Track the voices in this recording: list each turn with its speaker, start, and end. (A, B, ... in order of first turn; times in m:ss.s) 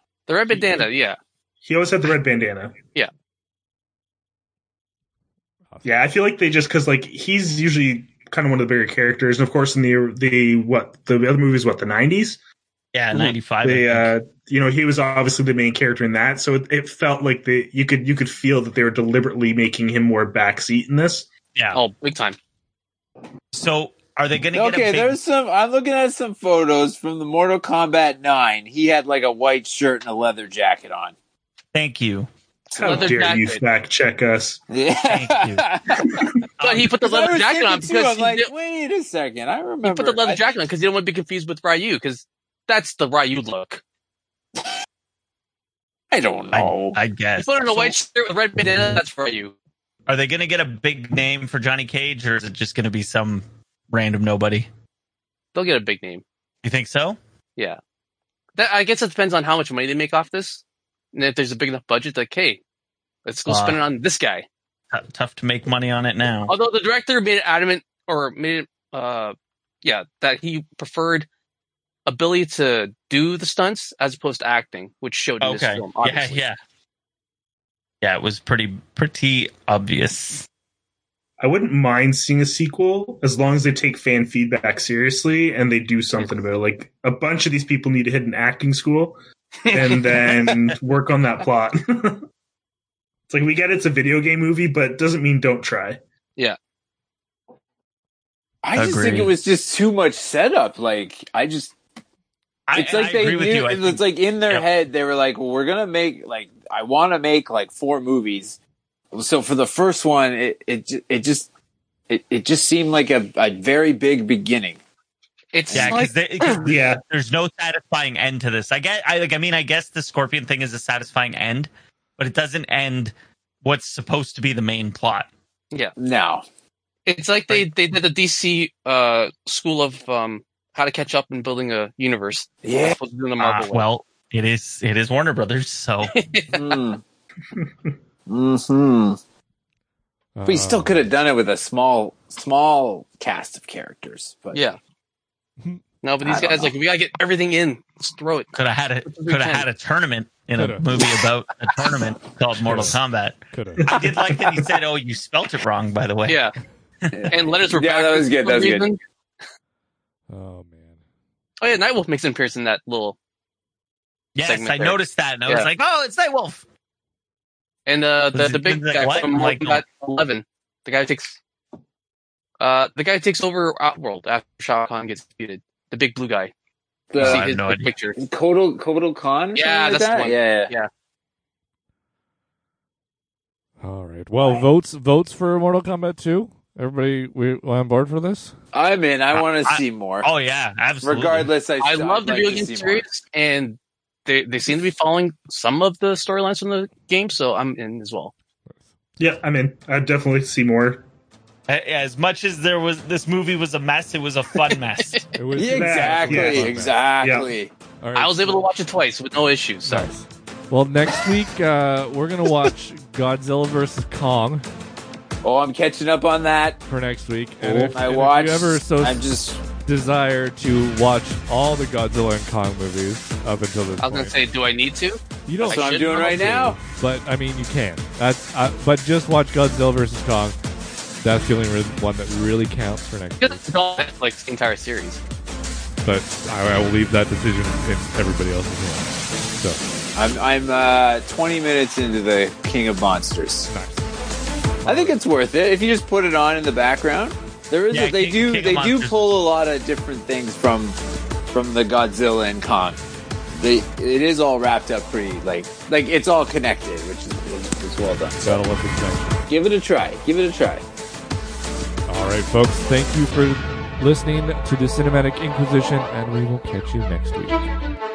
0:00.3-0:01.2 A
0:01.6-0:02.7 B
0:05.7-0:06.0 C
0:05.8-0:12.4 B
0:12.9-0:14.1 D
0:13.1-0:21.3 B
0:21.5-0:21.8 D
0:21.7-0:22.4 A
0:23.5-0:25.2 D
0:24.5-0:31.1 E
0:31.7-0:32.3 D
0:32.7-0:33.2 E
0:32.8-0:34.6 B
0:32.8-0:33.6 A
0:34.7-0:36.3 E
0:35.1-0:35.6 D
0:36.0-0:36.3 B
0:36.6-0:36.9 D
0:36.6-0:38.5 A
0:37.0-0:40.4 E
0:39.8-0:43.8 A
0:46.1-0:47.0 E
0:46.5-0:48.0 D
0:47.4-0:49.5 A
0:50.1-0:54.7 D
0:55.5-0:56.2 A
0:56.6-0:57.2 D
0:58.6-1:02.6 A
1:03.2-1:04.5 A
1:03.5-1:03.8 D
1:04.9-1:06.5 D
1:06.5-1:11.2 A
1:12.1-1:16.4 A
1:15.4-1:16.6 D
1:18.0-1:20.5 D
1:21.4-1:29.2 B
1:29.6-1:30.3 A
1:29.7-1:32.2 B
1:33.3-1:36.0 B
1:38.6-1:41.7 E
1:38.8-1:39.3 D
1:42.7-1:44.6 D
1:42.7-1:48.6 E
1:49.1-1:51.5 E
1:52.1-1:54.8 E
1:55.5-1:56.6 A
1:55.7-1:56.0 E
1:55.7-2:05.3 D
1:56.5-1:57.0 B
2:06.0-2:06.4 E
2:07.1-2:13.8 A
2:12.6-2:13.0 E
2:13.4-2:16.2 D
2:16.1-2:16.8 A
2:16.5-2:17.0 E
2:18.3-2:19.2 E
2:20.4-2:21.0 C
2:20.4-2:24.6 E
2:26.0-2:28.5 A
2:26.2-2:26.7 E
2:28.5-2:36.5 D
2:29.0-2:29.6 A
2:30.5-2:30.8 C
2:32.7-2:33.0 C
2:33.5-2:33.9 C
2:33.8-2:34.7 B
2:36.3-2:36.5 A
2:37.1-2:38.9 E
2:37.3-2:39.0 A
2:40.3-2:41.0 C
2:41.6-2:43.2 A
2:44.3-2:46.6 D
2:44.4-2:45.7 A
2:47.9-2:51.4 A
2:48.3-2:49.8 D
2:52.6-2:56.5 A
2:57.1-2:57.5 E
2:57.2-2:58.2 A
2:57.2-2:57.9 D
2:58.2-3:00.7 E
2:59.5-3:00.9 A
3:03.8-3:08.5 C
3:04.4-3:04.7 E
3:08.7-3:10.3 E
3:09.3-3:11.5 D
3:11.0-3:13.0 E
3:11.8-3:18.3 A
3:19.2-3:21.0 B
3:21.7-3:25.2 D
3:24.6-3:25.2 A
3:25.3-3:27.0 C
3:25.6-3:27.7 E
3:25.6-3:27.5 B
3:28.0-3:28.6 C
3:28.1-3:30.1 A
3:29.8-3:34.6 C
3:35.4-3:36.8 E
3:36.9-3:39.2 C
3:37.6-3:39.6 E
3:39.8-3:44.3 C
3:44.0-3:46.4 A
3:45.5-3:50.6 C
3:45.6-3:46.8 E
3:51.2-3:53.7 C
3:53.4-3:55.2 A
3:56.0-3:59.8 C
4:00.1-4:03.7 E
4:03.7-4:04.0 C
4:04.8-4:05.2 C
4:04.8-4:11.0 E
4:07.9-4:09.2 D
4:11.5-4:13.0 E
4:13.5-4:18.6 E
4:18.4-4:19.5 C
4:19.5-4:20.8 E
4:22.1-4:27.6 C